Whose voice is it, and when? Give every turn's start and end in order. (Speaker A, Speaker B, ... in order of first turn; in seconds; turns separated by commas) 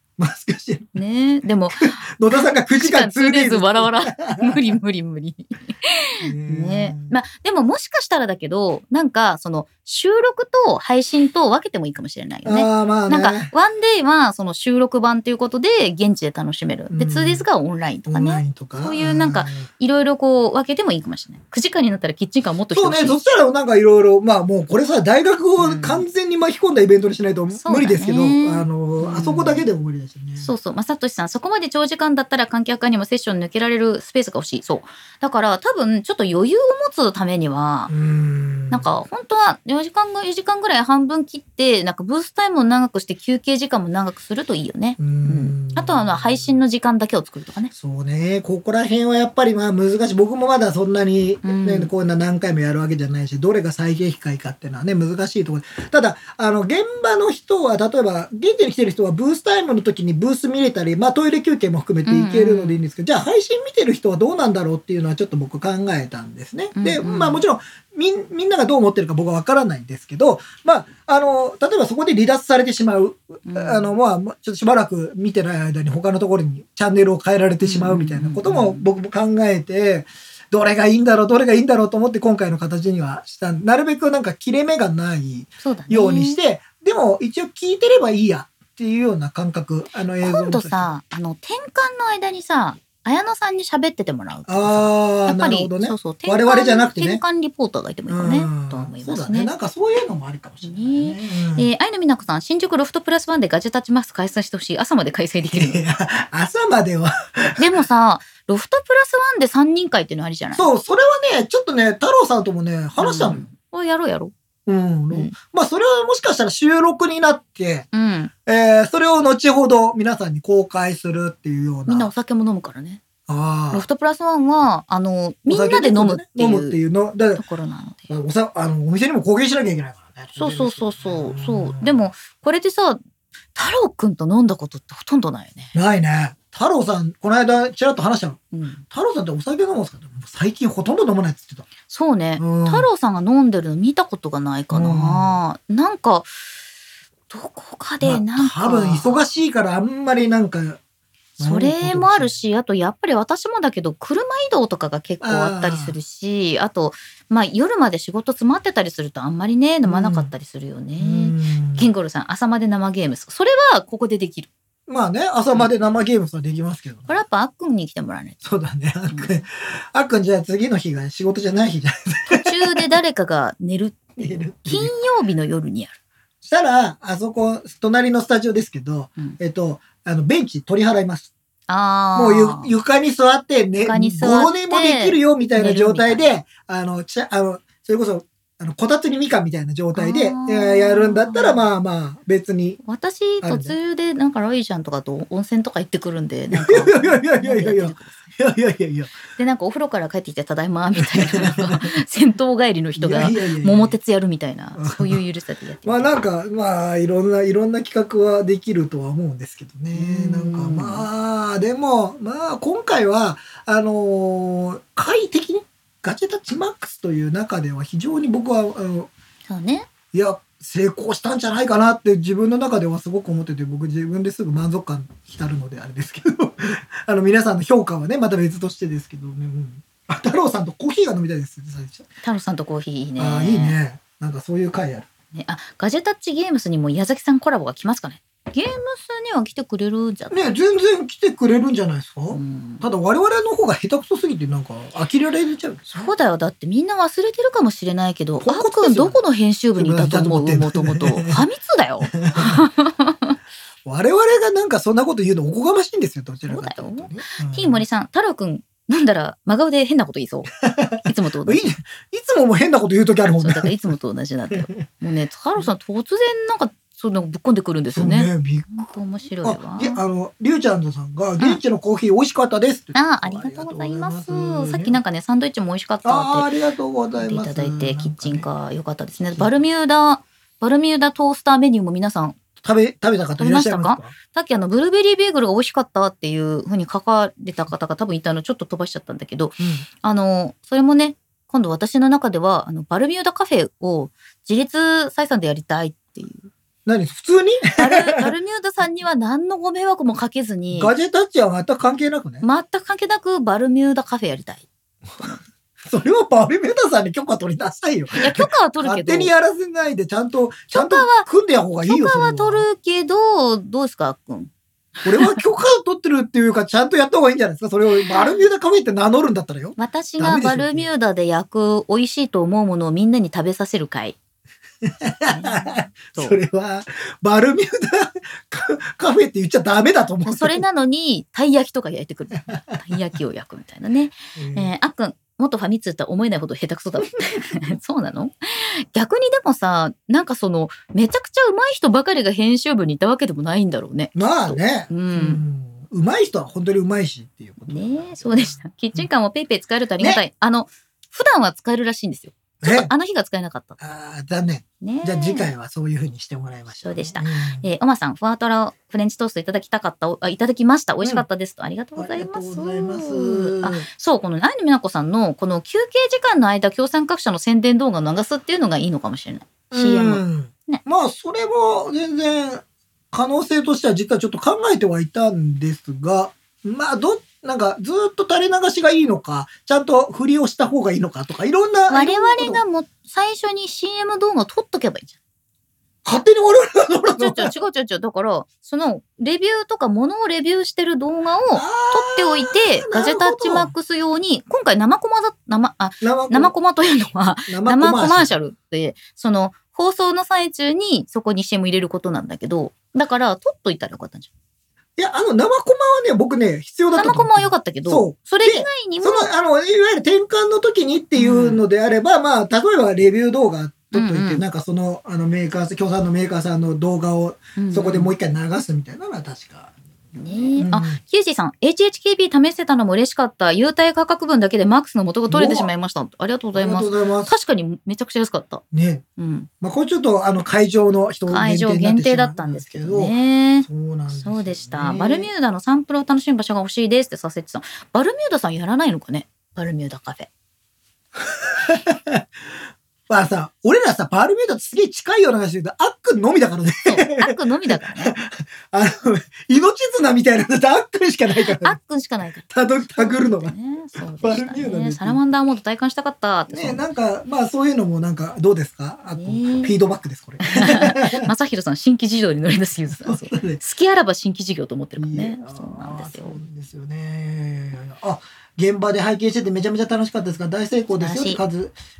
Speaker A: 0.2-0.9, Speaker B: 0.9-23.2, Speaker A: 1.7-4.8, Speaker A: 6.2-7.1, Speaker A: 12.4-13.5, Speaker A: 16.9-17.4, Speaker A: 18.1-19.6, Speaker A: 22.7-30.5, Speaker B: 25.6-26.1, Speaker B: 27.5-29.7, Speaker B: 30.4-37.9, Speaker A: 37.9-38.9, Speaker B: 38.7-47.7, Speaker A: 45.0-46.6, Speaker A: 47.7-90.9, Speaker B: 51.4-51.9, Speaker B: 62.0-62.8, Speaker B: 66.7-67.4, Speaker B: 73.4-73.9, Speaker B: 77.6-78.9, Speaker B: 85.6-86.4, Speaker B: 90.2-99.5, Speaker A: 94.5-97.2, Speaker A: 98.1-101.7, Speaker B: 100.6-105.8, Speaker A: 105.5-107.8, Speaker B: 107.6-110.7, Speaker A: 110.5-113.5, Speaker B: 113.0-114.3, Speaker A: 114.7-117.8, Speaker B: 115.1-115.3, Speaker B: 117.9-118.3, Speaker A: 118.5-122.1, Speaker B: 121.9-123.0, Speaker A: 123.3-123.8, Speaker B: 123.7-126.8, Speaker A: 125.5-127.4, Speaker B: 127.3-128.1, Speaker A: 128.1-132.1, Speaker B: 130.4-133.0, Speaker B: 133.5-135.7, Speaker A: 135.7-141.7, Speaker B: 138.5-138.8, Speaker B: 141.9-146.3, Speaker A: 142.4-142.9, Speaker A: 144.7-145.4, Speaker B: 147.3-149.2, Speaker A: 148.0-150.8, Speaker A: 151.4-152.4, Speaker B: 151.4-164.5, Speaker A: 155.2-155.9, Speaker A: 159.8-160.3, Speaker A: 161.0-161.9, Speaker A: 164.9-167.2, Speaker B: 167.1-168.4, Speaker A: 168.4-172.9, Speaker B: 169.1-169.4, Speaker B: 172.3-175.9, Speaker A: 174.2-174.9, Speaker A: 176.4-181.3, Speaker B: 181.7-182.7, Speaker A: 182.1-192.8, Speaker B: 183.8-186.3, Speaker B: 189.9-191.6, Speaker B: 192.8-198.3, Speaker A: 193.4-193.8, Speaker A: 196.5-199.1, Speaker B: 199.3-206.1, Speaker A: 201.0-201.9, Speaker A: 203.0-203.9, Speaker A: 204.8-205.2, Speaker A: 205.8-219.1, Speaker B: 209.9-211.1, Speaker B: 219.5-219.9, Speaker A: 220.1-232.1, Speaker B: 232.2-233.8, Speaker A: 233.2-235.1, Speaker B: 235.3-240.5, Speaker A: 240.3-246.1, Speaker B: 242.3-242.8, Speaker B: 245.9-253.4, Speaker A: 248.4-249.2, Speaker A: 249.8-251.4, Speaker A: 252.1-252.7, Speaker A: 253.8-257.8, Speaker B: 256.5-260.5, Speaker A: 260.6-263.8, Speaker B: 261.0-261.7, Speaker B: 263.4-270.0, Speaker A: 264.5-264.8, Speaker A: 267.9-268.9, Speaker A: 269.4-275.0, Speaker B: 272.9-276.5, Speaker A: 276.0-278.5, Speaker B: 277.2-282.4, Speaker A: 279.3-279.6, Speaker A: 282.6-284.1, Speaker B: 283.4-296.5, Speaker A: 289.6-289.8, Speaker A: 296.9-298.3, Speaker B: 297.8-300.9, Speaker A: 300.7-302.4, Speaker B: 302.4-304.7, Speaker B: 305.2-305.4, Speaker A: 305.9-312.7, Speaker B: 308.2-309.3, Speaker B: 310.7-311.3, Speaker B: 311.8-314.5, Speaker A: 315.0-320.9, Speaker B: 317.9-318.5, Speaker B: 319.8-324.1, Speaker A: 324.8-330.6, Speaker B: 325.3-326.4, Speaker B: 330.2-345.4, Speaker A: 334.4-334.7, Speaker A: 344.1-349.1, Speaker B: 347.7-353.8, Speaker A: 352.6-352.9, Speaker A: 353.8-357.7, Speaker B: 354.8-355.5, Speaker B: 356.8-370.8, Speaker A: 361.9-363.9, Speaker A: 369.7-382.6, Speaker B: 381.9-385.1, Speaker A: 386.0-387.5, Speaker B: 387.1-404.3, Speaker A: 391.5-393.7, Speaker A: 396.0-396.5, Speaker A: 397.5-398.3, Speaker A: 405.0-419.7, Speaker B: 406.9-409.3, Speaker B: 411.1-411.6, Speaker B: 413.9-414.4, Speaker B: 417.6-418.1, Speaker B: 420.1-428.6, Speaker A: 420.3-421.0, Speaker A: 425.3-425.7, Speaker A: 426.5-427.3, Speaker A: 428.7-429.0, Speaker B: 429.2-429.5, Speaker A: 429.6-435.3, Speaker B: 431.3-440.3, Speaker A: 441.2-442.2, Speaker A: 443.1-451.8, Speaker B: 446.8-448.1, Speaker B: 451.4-456.8, Speaker A: 452.5-453.5, Speaker A: 454.2-455.2, Speaker A: 456.5-461.3, Speaker B: 459.1-459.7, Speaker B: 460.4-466.4, Speaker A: 462.9-463.6, Speaker A: 465.0-471.7, Speaker B: 470.9-471.4